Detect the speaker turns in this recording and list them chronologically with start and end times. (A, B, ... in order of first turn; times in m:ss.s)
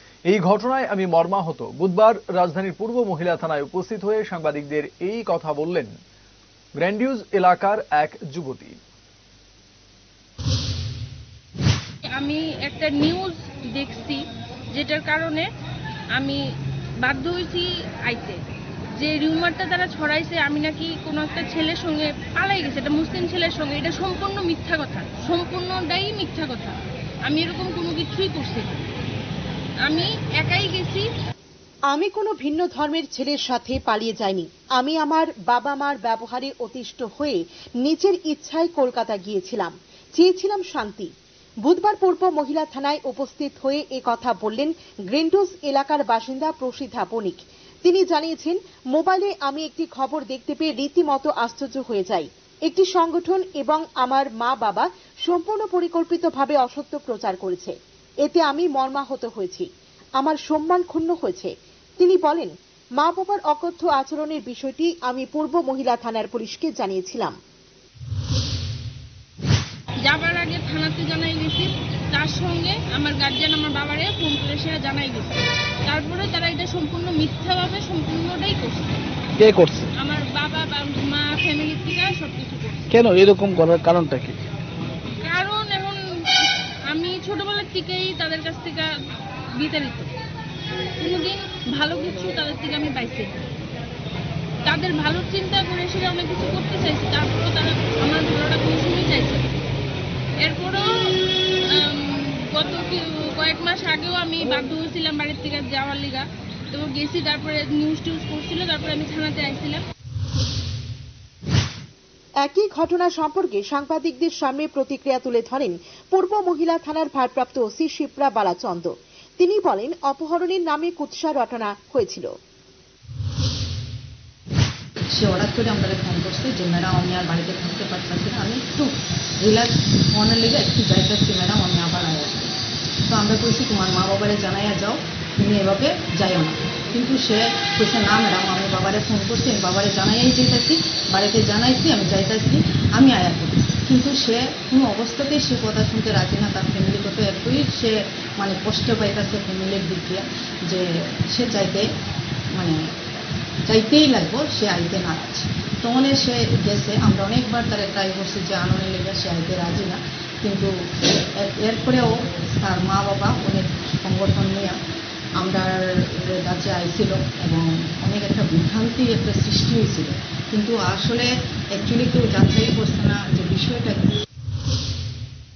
0:00.3-0:05.9 A
0:06.8-0:08.8 A
0:12.0-0:15.5 B
0:16.2-0:16.4 B
0:17.0-0:18.4 B
0:19.0-0:28.9 B
0:29.8-0:31.1 B
0:31.9-0:41.1 C
0:41.7-0:57.7 C
0:58.2-0:59.7 C
1:00.2-1:07.4 C
1:10.1-1:19.0 B
1:19.4-1:19.9 D
1:20.0-1:22.9 B
1:22.9-1:24.4 D
1:25.2-1:28.9 B
1:29.6-1:30.1 B
1:31.0-1:33.4 B
1:34.7-1:39.5 B
1:40.4-1:40.9 B
1:41.7-1:49.8 B
1:52.4-2:02.3 C
2:05.1-2:12.5 E
2:13.1-2:31.9 E
2:32.6-2:32.9 E
2:33.7-2:40.8 E
2:41.4-2:44.8 E
2:45.4-2:54.0 E